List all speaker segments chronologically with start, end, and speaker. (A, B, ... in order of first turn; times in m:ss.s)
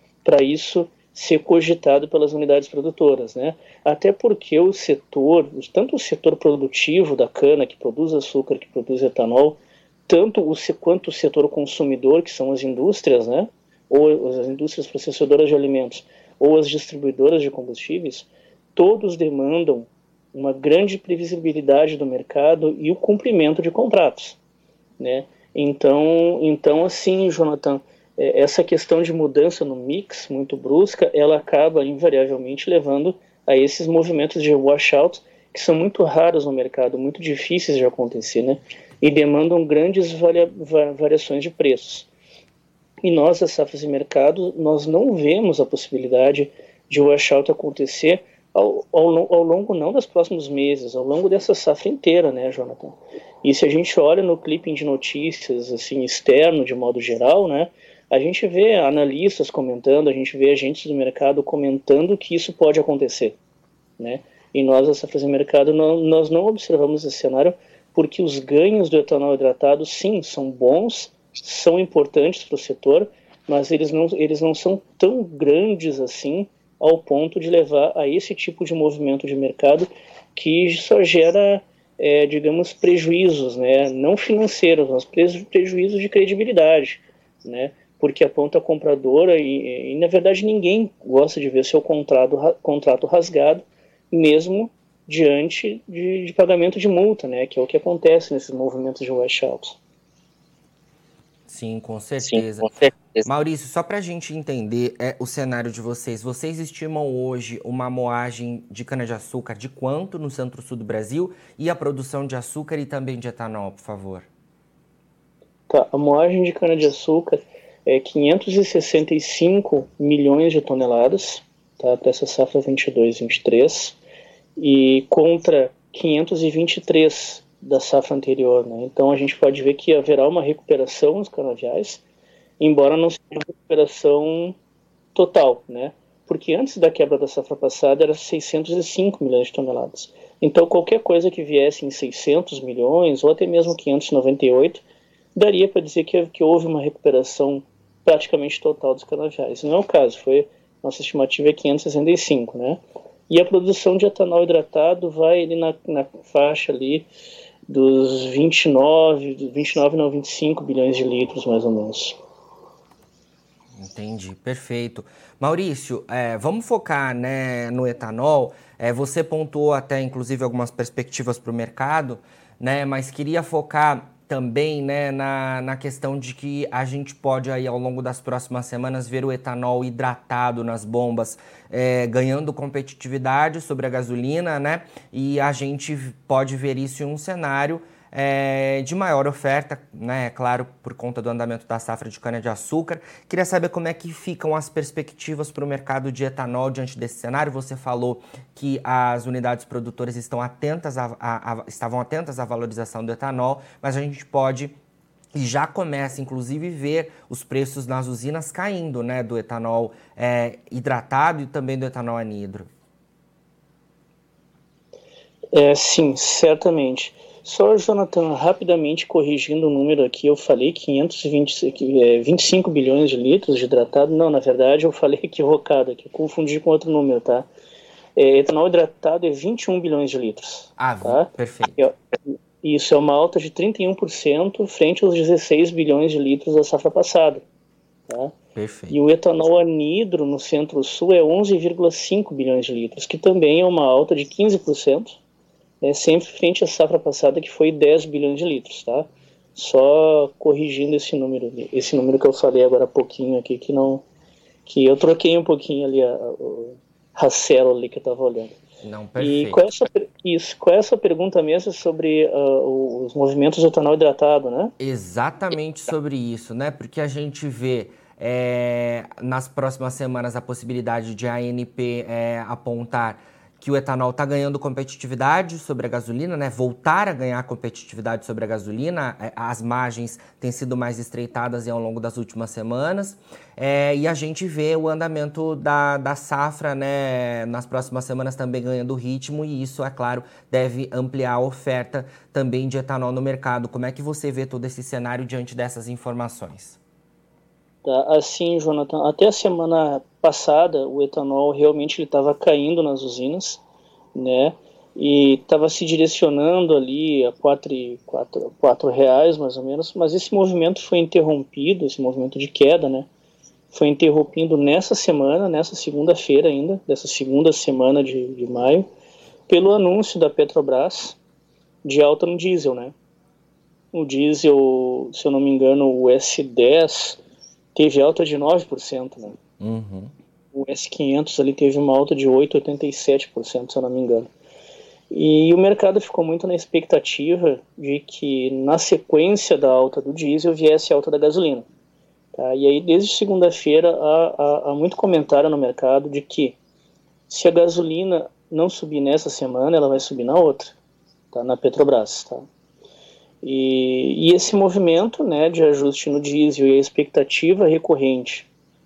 0:00.2-0:24.4 A
0:25.0-0:42.1 A
0:43.0-1:03.4 A
1:04.0-1:39.8 A
1:41.5-1:54.3 B
1:55.7-2:04.0 A
2:04.6-2:12.0 A
2:12.6-2:14.6 A
2:15.2-2:24.8 A
2:25.4-2:37.1 A
2:37.7-2:42.2 A
2:43.8-3:24.7 B
3:25.3-3:32.7 B
3:35.5-3:47.5 A
3:48.2-3:57.4 A
3:50.8-3:51.8 B
3:58.1-3:58.4 A
3:58.6-3:59.0 B
3:58.9-4:05.2 A
4:05.8-4:14.0 A
4:14.7-4:18.5 A
4:18.8-4:19.7 B
4:19.2-4:24.7 A
4:24.8-4:56.8 B
4:57.8-5:03.6 A
5:04.2-5:13.1 A
5:13.7-5:18.8 A
5:19.5-5:21.2 A
5:21.8-5:22.9 A
5:23.9-5:27.2 A
5:27.8-5:29.4 A
5:29.6-5:30.1 B
5:30.5-5:34.3 A
5:35.1-5:41.6 A
5:42.3-5:46.6 A
5:47.3-5:50.8 A
5:51.3-5:52.4 A
5:53.4-5:58.5 A